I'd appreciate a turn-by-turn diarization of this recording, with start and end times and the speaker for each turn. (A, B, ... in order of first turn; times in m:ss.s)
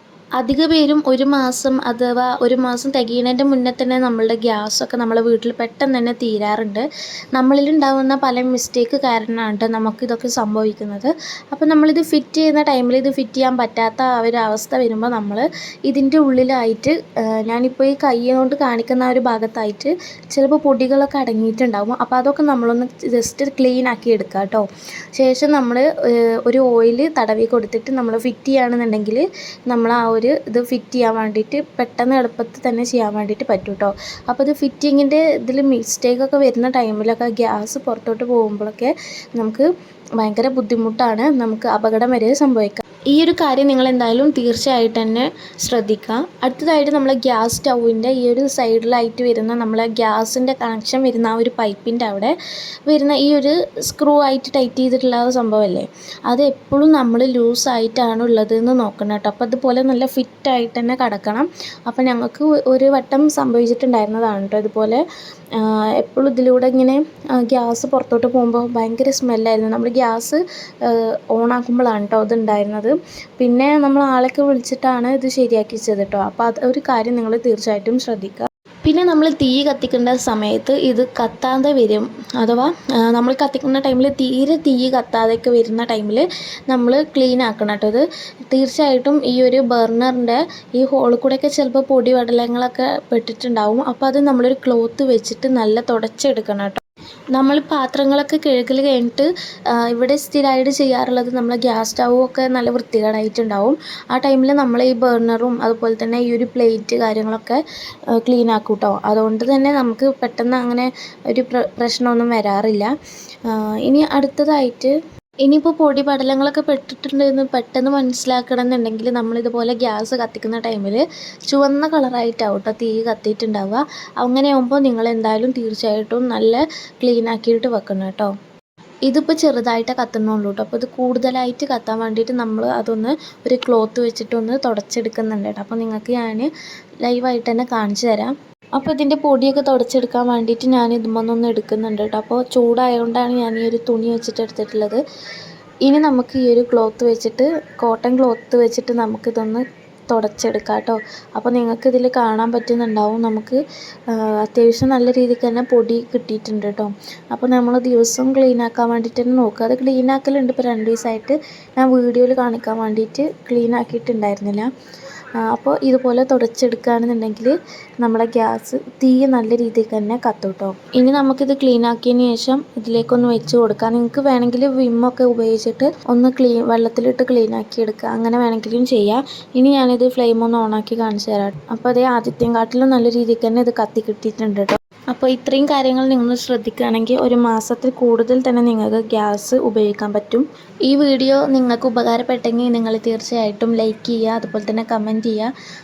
0:00.4-0:06.8 A
0:07.3-0:39.7 A
0:40.2-0:52.3 A
0:52.9-1:05.0 A
1:05.6-1:36.8 A
1:37.3-1:39.3 A
1:39.8-1:47.6 A
1:48.2-1:52.9 A
1:53.5-1:54.9 A
1:55.4-2:08.3 A
2:09.1-2:16.5 A
2:17.0-2:25.0 A
2:25.8-2:44.7 A
2:45.5-3:15.5 A